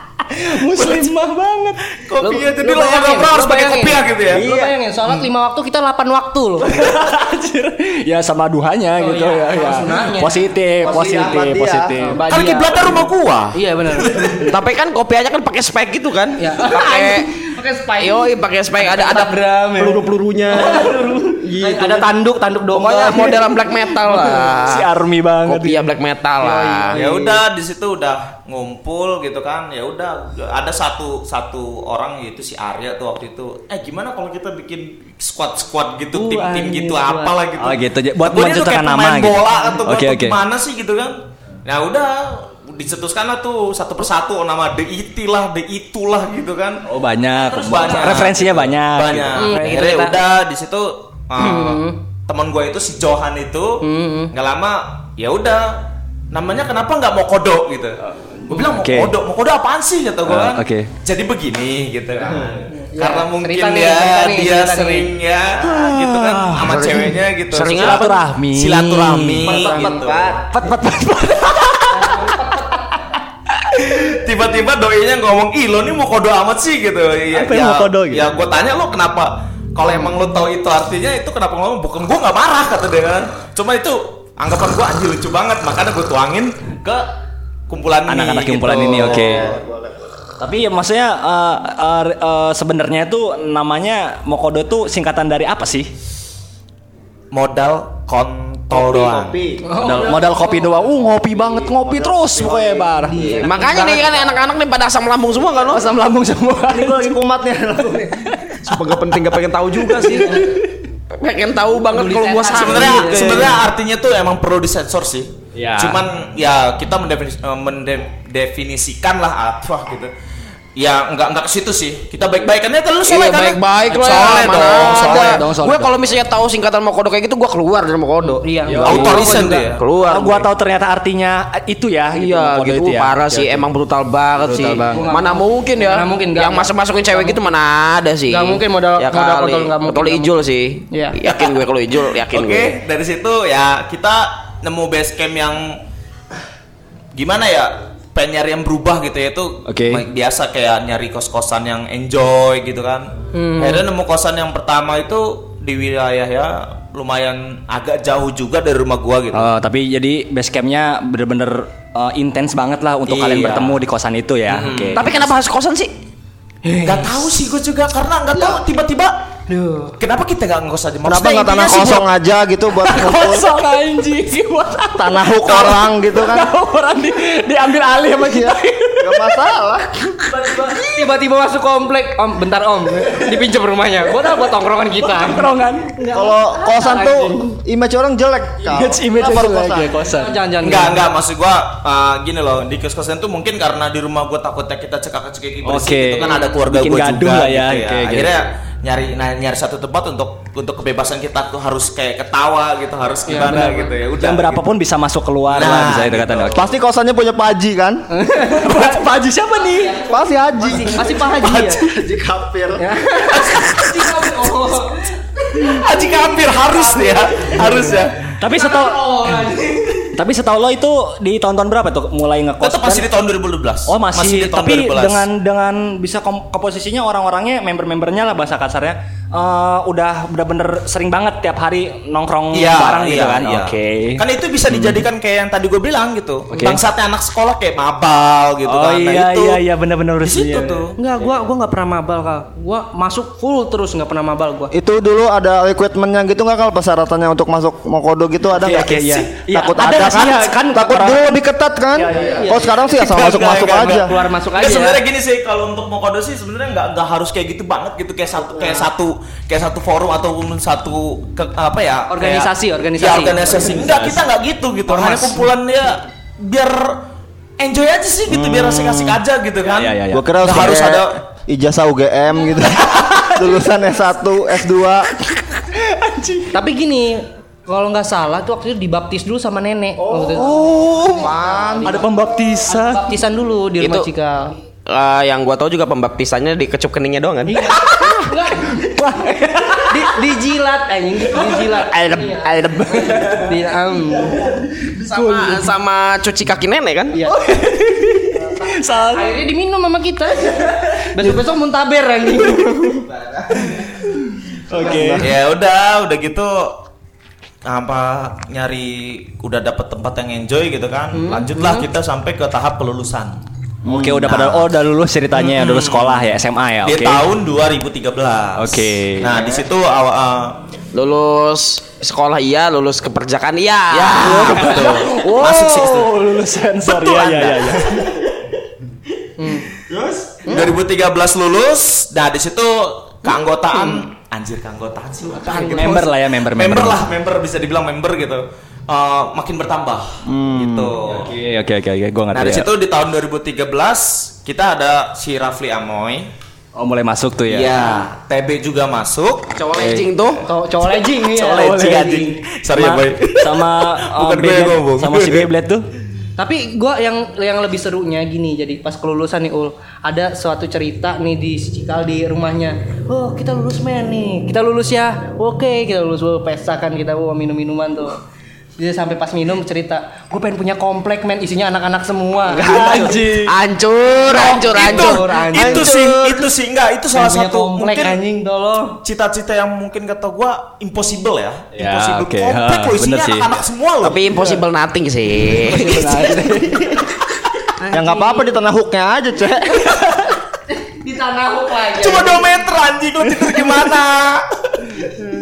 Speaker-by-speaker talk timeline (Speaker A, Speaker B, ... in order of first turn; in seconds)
Speaker A: 0.2-1.9, 6.7-12.2, 22.8-25.9, 37.6-40.4, 46.9-49.6, 58.5-59.1, 60.3-60.9, 65.7-66.7, 67.7-69.5, 70.4-72.3, 77.3-78.3, 88.1-89.5, 90.4-95.9, 99.8-103.3, 105.7-107.2, 107.9-109.2, 109.8-110.8, 115.5-116.0, 124.1-126.0, 128.7-133.7, 134.4-135.1, 149.7-150.1, 159.3-165.2, 166.7-167.2, 172.8-179.4, 180.3-180.9, 185.0-186.0, 188.6-190.4, 195.6-198.5, 204.2-206.7, 208.4-210.0, 218.4-219.2, 220.2-223.1, 223.9-235.0, 236.5-236.8, 238.7-240.9, 248.6-251.2, 252.0-252.6, 263.7-264.2, 264.9-265.4, 269.7-270.4, 272.9-273.6, 275.6-276.6, 280.1-283.1, 287.8-290.3, 291.3-293.6, 295.0-295.7, 297.3-299.3, 304.7-305.3, 313.9-317.3, 318.6-319.5, 324.2-328.1, 335.7-337.1, 341.0-342.7, 346.8-347.8, 349.7-350.1, 351.4-355.9, 372.5-373.5, 381.8-383.5, 385.5-387.0, 389.9-390.4
Speaker B: 0.8-1.1, 2.1-4.5, 12.3-14.4, 26.9-70.3, 73.8-87.1, 87.7-89.6, 97.3-99.4, 112.5-120.1, 120.8-125.5, 128.8-129.8, 141.2-145.8, 147.2-159.5, 163.1-163.8, 164.5-165.2, 166.8-169.2, 170.0-172.1, 190.6-204.7, 205.5-206.6, 211.4-211.8, 213.3-214.2, 215.5-218.3, 222.6-225.3, 232.5-239.6, 240.2-241.0, 248.9-249.4, 252.8-267.1, 267.6-271.2, 305.2-306.8, 307.6-313.4, 314.2-314.7, 315.4-316.3, 316.8-320.6, 323.9-326.3, 326.8-328.2, 329.9-341.3, 342.3-346.3, 347.5-349.6, 351.4-355.5, 374.3-378.2, 379.0-384.2, 392.0-395.1
Speaker C: 2.2-6.8, 9.0-11.3, 12.0-14.6, 16.4-23.3, 26.4-27.4, 36.1-37.4, 47.7-48.3, 49.4-50.2, 51.4-52.0, 53.8-54.3, 62.7-65.1, 69.5-70.2, 71.9-73.0, 99.6-100.8, 103.0-104.4, 111.8-113.6, 128.2-129.7, 134.5-137.4, 138.3-140.3, 140.9-141.2, 153.3-153.8, 169.5-170.0, 180.8-187.6, 190.0-191.0, 203.3-203.9, 208.1-208.9, 209.7-211.8, 212.8-215.8, 216.7-220.2, 241.0-244.7, 252.2-252.7, 253.7-255.0, 262.1-263.5, 276.5-282.1, 282.6-284.6, 287.5-288.9, 289.9-294.5, 297.1-297.4, 298.5-303.1, 311.1-311.9, 329.4-329.7, 330.5-330.7, 335.4-335.9, 350.4-352.3, 356.4-368.2, 368.8-373.2, 374.4-376.0, 377.1-379.0, 387.8-388.6, 390.8-392.5
Speaker D: 4.3-4.7, 14.4-17.3, 18.0-22.1, 22.7-24.9, 25.4-27.0, 66.6-68.2, 69.4-70.7, 103.2-105.8, 108.6-110.5, 111.1-113.6, 123.0-130.5, 132.1-142.8, 164.9-165.9, 283.8-284.1, 284.9-287.8, 295.0-297.2, 320.9-325.1, 349.6-350.4, 372.6-376.2, 384.0-386.4
Speaker E: 10.8-12.0, 89.0-90.0, 98.7-100.0, 101.3-102.9, 106.7-108.3, 171.1-173.5, 175.0-176.5, 178.2-180.2, 186.1-190.0, 206.6-208.1, 210.0-212.9, 244.7-254.1, 268.3-269.2, 270.1-275.1, 281.1-282.0, 304.7-305.3, 313.9-314.3, 340.3-340.9, 387.9-390.0